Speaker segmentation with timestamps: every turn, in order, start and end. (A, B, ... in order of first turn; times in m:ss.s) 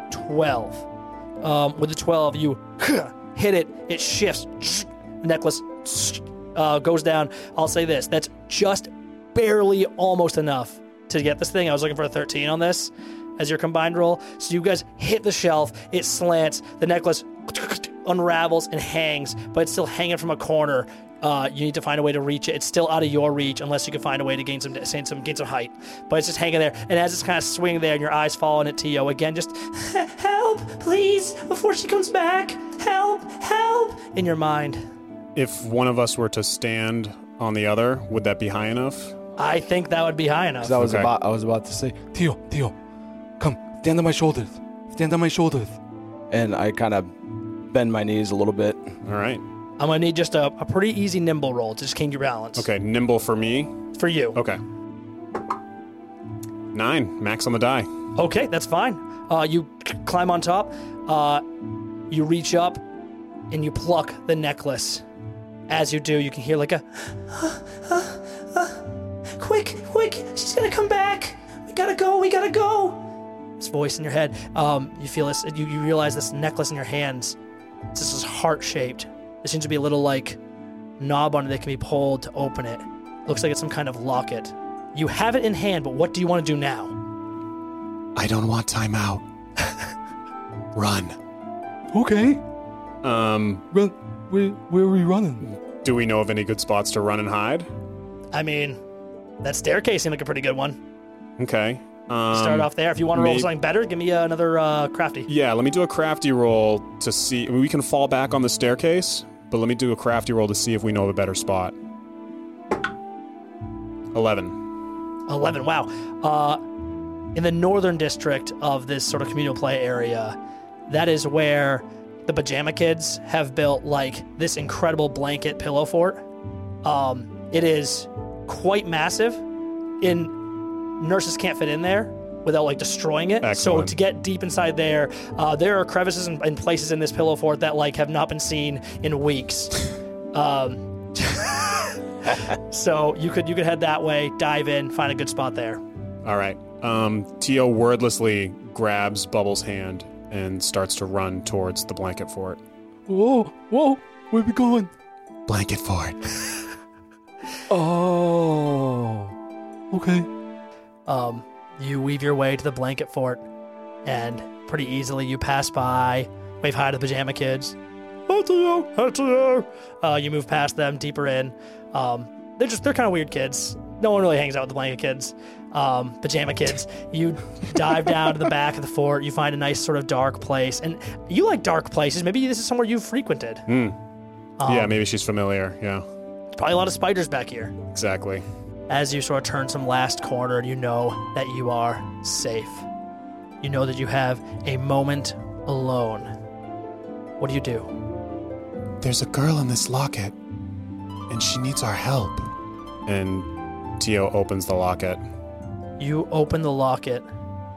0:00.1-0:00.9 A
0:01.4-0:34.8 A
0:35.3-0:39.1 B
0:39.4-0:40.8 A
0:40.6-0:42.1 C
0:40.8-0:41.1 B
0:42.1-0:42.7 D
0:43.4-0:45.8 D
0:46.3-0:47.1 C
0:47.7-0:48.9 C
0:49.0-0:49.4 B
0:49.8-0:52.7 A
0:52.6-0:53.8 B
0:53.9-0:54.4 A
0:54.3-0:54.6 B
0:56.7-0:57.9 B
0:58.2-1:01.4 A
1:02.1-1:02.8 A
1:03.5-1:05.0 A
1:05.7-1:13.0 A
1:13.6-1:17.4 A
1:17.9-1:20.4 A
1:21.0-1:27.0 A
1:28.2-1:29.2 B
1:30.7-1:31.2 B
1:31.9-1:32.4 D
1:33.0-1:33.6 B
1:33.7-1:35.4 D
1:35.4-1:37.7 B
1:38.3-1:38.8 A
1:39.4-1:40.8 A
1:41.4-1:43.5 B
1:42.3-1:45.3 A
1:45.3-1:51.7 B
1:54.1-1:54.6 B
1:55.3-1:56.6 A
1:57.3-2:00.4 A
2:00.9-2:06.2 A
2:06.8-2:09.4 A
2:10.0-2:10.4 A
2:11.0-2:25.8 A
2:13.4-2:13.9 B
2:26.2-2:32.6 B
2:33.1-2:34.9 D
2:35.5-2:36.2 B
2:37.7-2:39.3 D
2:39.9-2:40.3 D
2:41.1-2:43.4 A
2:44.0-3:03.6 A
3:03.7-3:04.0 B
3:04.6-3:04.9 A
3:04.6-3:06.0 B
3:06.6-3:07.8 A
3:07.9-3:08.4 B
3:08.9-3:12.8 A
3:13.6-3:16.4 A
3:17.4-3:17.9 A
3:19.0-3:20.3 B
3:21.3-3:22.5 B
3:23.0-3:25.2 B
3:26.0-3:27.3 A